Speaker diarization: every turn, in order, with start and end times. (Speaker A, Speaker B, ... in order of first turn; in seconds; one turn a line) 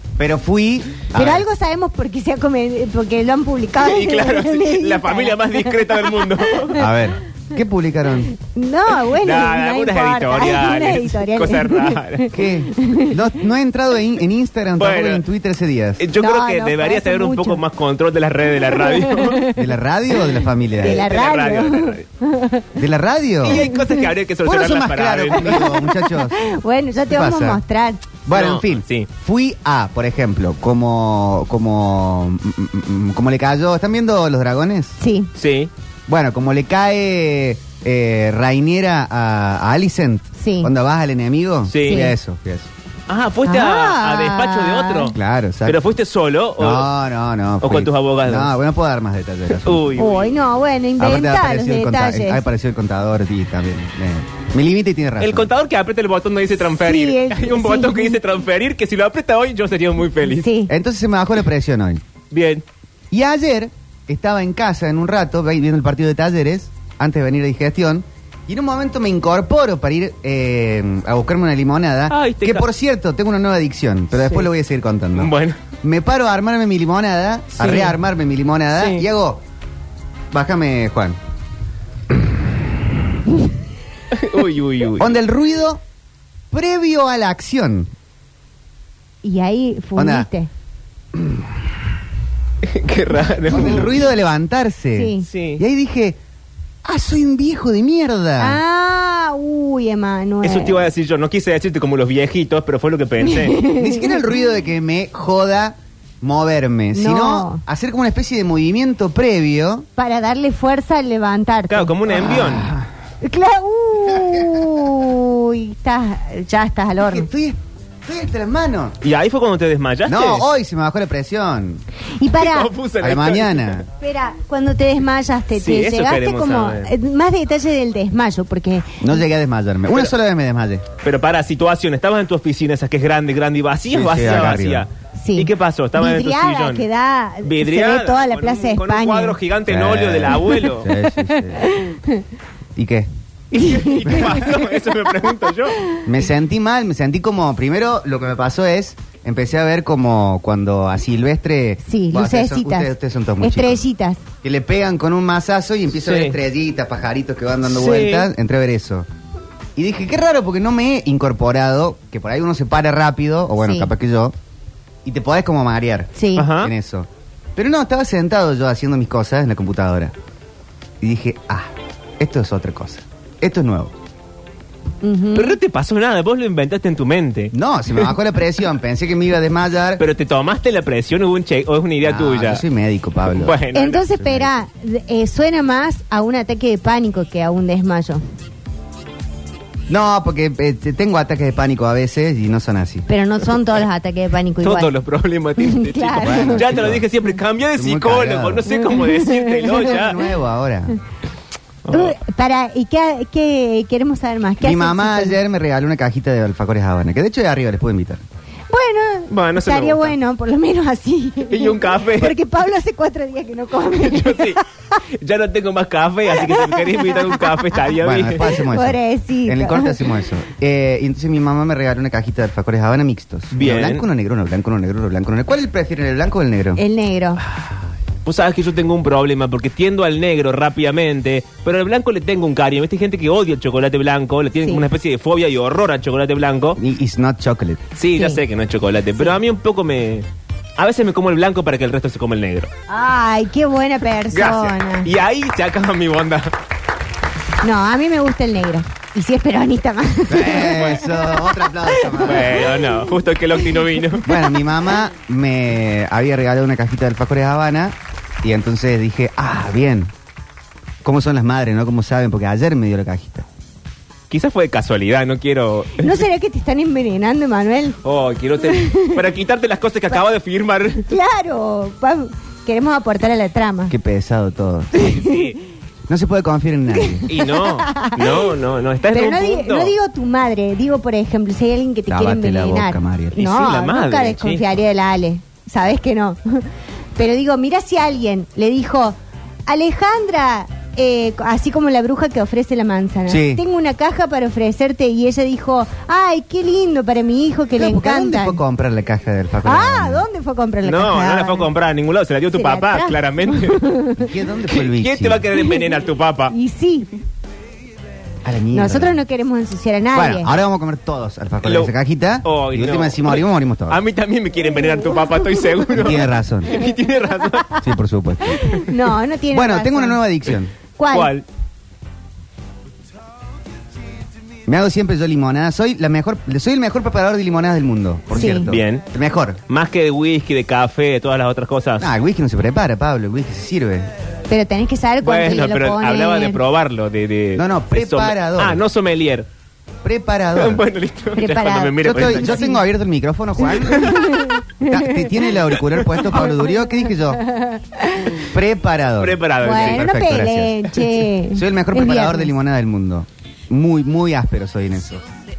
Speaker A: 0.2-1.4
Speaker B: 1.1-6.8
Speaker C: 3.8-6.8
Speaker A: 6.8-8.3
Speaker B: 8.3-13.2
Speaker C: 9.1-12.3
Speaker A: 12.3-16.0
Speaker C: 14.8-15.2
Speaker C: 16.0-19.5
Speaker B: 16.2-17.6
Speaker B: 18.7-19.6
Speaker A: 19.6-21.1
Speaker B: 20.8-22.8
Speaker C: 20.8-22.0
Speaker A: 22.8-23.6
Speaker C: 23.4-25.7
Speaker B: 23.5-24.1
Speaker A: 24.4-26.4
Speaker B: 25.4-28.1
Speaker A: 27.1-27.6
Speaker A: 28.2-35.0
Speaker C: 28.3-29.1
Speaker B: 35.0-35.3
Speaker C: 35.4-35.7
Speaker A: 36.1-42.7
Speaker B: 40.4-40.7
Speaker C: 41.7-42.1
Speaker B: 41.8-42.1
Speaker C: 43.1-46.9
Speaker B: 43.5-45.1
Speaker A: 45.1-45.8
Speaker A: 46.6-49.9
Speaker C: 47.6-48.5
Speaker C: 49.6-50.4
Speaker B: 50.0-52.4
Speaker A: 51.0-55.5
Speaker C: 55.2-60.5
Speaker B: 56.8-58.2
Speaker B: 60.4-60.7
Speaker A: 60.7-62.0
Speaker C: 62.3-62.6
Speaker A: 63.1-79.4
Speaker C: 72.1-72.7
Speaker C: 74.2-74.5
Speaker C: 75.2-75.6
Speaker C: 77.6-78.0
Speaker C: 78.8-79.1
Speaker A: 80.3-81.2
Speaker C: 84.1-85.2
Speaker A: 85.0-85.8
Speaker A: 86.5-87.9
Speaker B: 89.2-90.5
Speaker A: 90.0-90.3
Speaker A: 91.2-91.5
Speaker C: 92.6-94.0
Speaker A: 93.5-96.2
Speaker B: 94.9-95.3
Speaker C: 95.2-95.6
Speaker A: 96.8-98.6
Speaker B: 98.4-100.9
Speaker C: 100.4-103.7
Speaker B: 103.2-104.2
Speaker A: 103.8-109.9
Speaker B: 106.9-107.6
Speaker B: 110.0-112.0
Speaker C: 111.7-112.7
Speaker A: 112.1-112.9
Speaker B: 113.2-117.3
Speaker A: 114.2-114.6
Speaker A: 117.0-119.0
Speaker C: 119.0-120.5
Speaker A: 120.1-121.8
Speaker B: 122.2-122.7
Speaker C: 122.4-123.9
Speaker A: 123.0-123.9
Speaker B: 124.0-129.2
Speaker C: 125.5-126.9
Speaker A: 129.0-130.8
Speaker C: 131.0-136.9
Speaker A: 133.9-134.9
Speaker B: 135.2-139.4
Speaker C: 137.4-140.9
Speaker A: 139.7-141.7
Speaker B: 140.5-142.2
Speaker A: 142.8-143.1
Speaker B: 143.5-144.7
Speaker C: 143.6-145.8
Speaker A: 146.1-153.8
Speaker B: 151.8-154.2
Speaker A: 154.4-159.1
Speaker C: 156.0-156.4
Speaker C: 157.7-158.3
Speaker A: 159.8-164.3
Speaker B: 163.6-163.9
Speaker A: 165.1-170.1
Speaker B: 166.2-166.5
Speaker C: 166.4-166.7
Speaker A: 171.0-173.9
Speaker B: 175.0-175.6
Speaker C: 175.3-178.1
Speaker A: 177.5-180.0
Speaker C: 180.0-182.6
Speaker A: 182.0-183.7
Speaker C: 183.4-184.1
Speaker B: 183.7-188.2
Speaker A: 184.2-184.5
Speaker A: 189.9-193.1
Speaker B: 193.1-194.9
Speaker C: 194.6-200.2
Speaker B: 195.6-196.7
Speaker A: 196.2-197.0
Speaker A: 197.8-198.7
Speaker B: 198.7-199.9
Speaker A: 199.9-201.0
Speaker C: 201.8-202.2
Speaker B: 201.9-205.4
Speaker A: 204.6-208.2
Speaker B: 208.7-215.0
Speaker C: 209.3-210.2
Speaker C: 211.5-212.4
Speaker C: 213.9-218.6
Speaker B: 216.4-217.8
Speaker A: 218.0-226.8
Speaker B: 218.5-220.0
Speaker C: 223.5-224.1
Speaker B: 226.8-227.4
Speaker C: 228.2-236.8
Speaker A: 236.8-237.8
Speaker C: 238.0-242.7
Speaker B: 238.1-238.4
Speaker B: 242.9-245.1
Speaker C: 244.3-246.5
Speaker B: 247.6-253.0
Speaker A: 250.3-252.7
Speaker C: 252.2-254.3
Speaker A: 254.2-260.1
Speaker A: 261.0-263.5
Speaker C: 264.3-266.2
Speaker B: 266.0-268.0
Speaker C: 268.0-271.1
Speaker B: 268.6-269.2
Speaker B: 271.1-273.9
Speaker A: 273.9-275.1
Speaker B: 275.0-275.4
Speaker C: 275.0-275.6
Speaker A: 276.1-277.3
Speaker B: 277.1-278.5
Speaker C: 277.3-279.9
Speaker B: 279.1-298.6
Speaker A: 282.1-283.4
Speaker C: 283.4-284.6
Speaker A: 293.3-293.6
Speaker A: 297.8-300.2
Speaker B: 299.6-301.7
Speaker C: 300.8-303.9
Speaker B: 302.5-304.3
Speaker A: 304.2-305.5
Speaker C: 304.7-306.5
Speaker B: 306.5-307.1
Speaker A: 308.4-309.2
Speaker B: 308.7-310.6
Speaker A: 310.1-314.0
Speaker C: 311.6-311.9
Speaker C: 312.4-317.7
Speaker B: 314.8-315.8
Speaker A: 315.9-316.8
Speaker A: 317.8-318.7
Speaker B: 318.5-320.2
Speaker A: 319.5-320.7
Speaker B: 321.0-321.3
Speaker C: 321.1-321.4
Speaker A: 324.7-329.6
Speaker B: 328.3-328.7
Speaker C: 328.7-329.1
Speaker C: 329.7-332.1
Speaker A: 332.0-334.1
Speaker B: 334.5-336.6
Speaker C: 335.2-339.5
Speaker A: 337.6-338.8
Speaker A: 340.0-340.9
Speaker C: 340.6-342.6
Speaker B: 341.4-342.8
Speaker A: 342.0-344.2
Speaker B: 343.8-345.3
Speaker C: 343.9-344.6
Speaker A: 344.8-347.4
Speaker C: 345.8-346.2
Speaker B: 347.4-348.4
Speaker A: 348.5-350.9
Speaker C: 349.2-350.1
Speaker B: 349.6-352.5
Speaker A: 351.5-355.2